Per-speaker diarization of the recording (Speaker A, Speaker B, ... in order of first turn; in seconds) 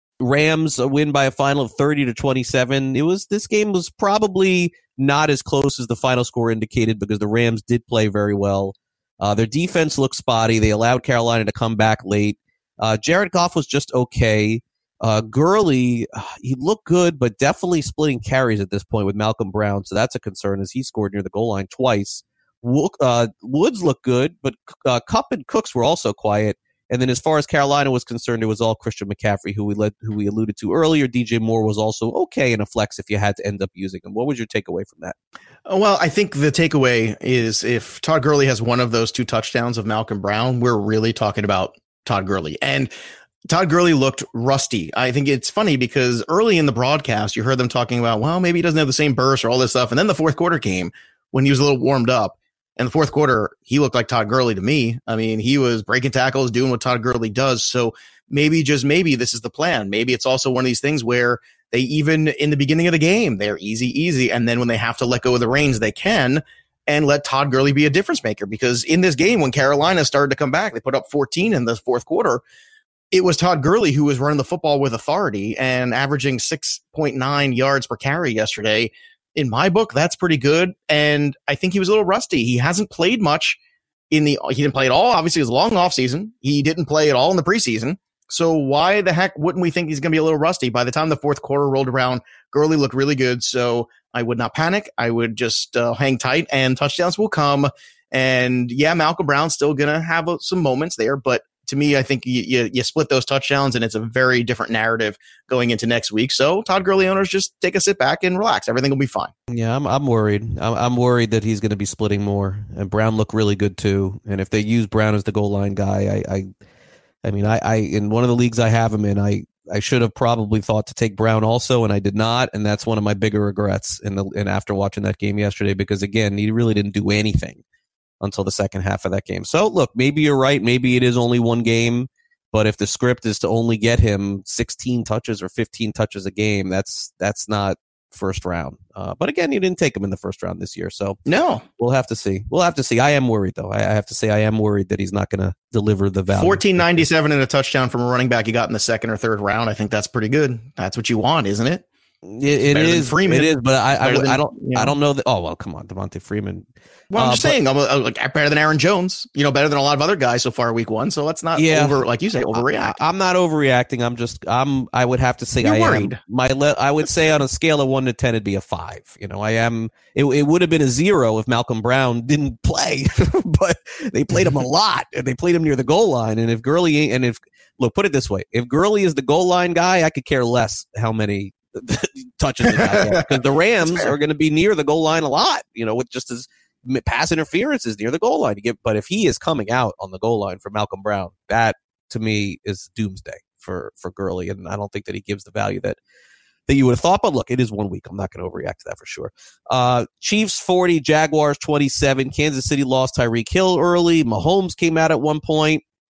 Speaker A: 0.2-35.1, 109.5-116.5, 117.2-127.6, 128.2-141.2, 141.8-147.1, 152.2-157.6, 161.5-196.0, 196.7-205.8
Speaker B: 35.7-42.9, 43.5-72.4, 73.1-83.6, 84.1-109.3, 141.3-141.6, 146.3-151.8, 152.7-154.9, 157.1-163.0, 165.6-166.2, 182.7-184.1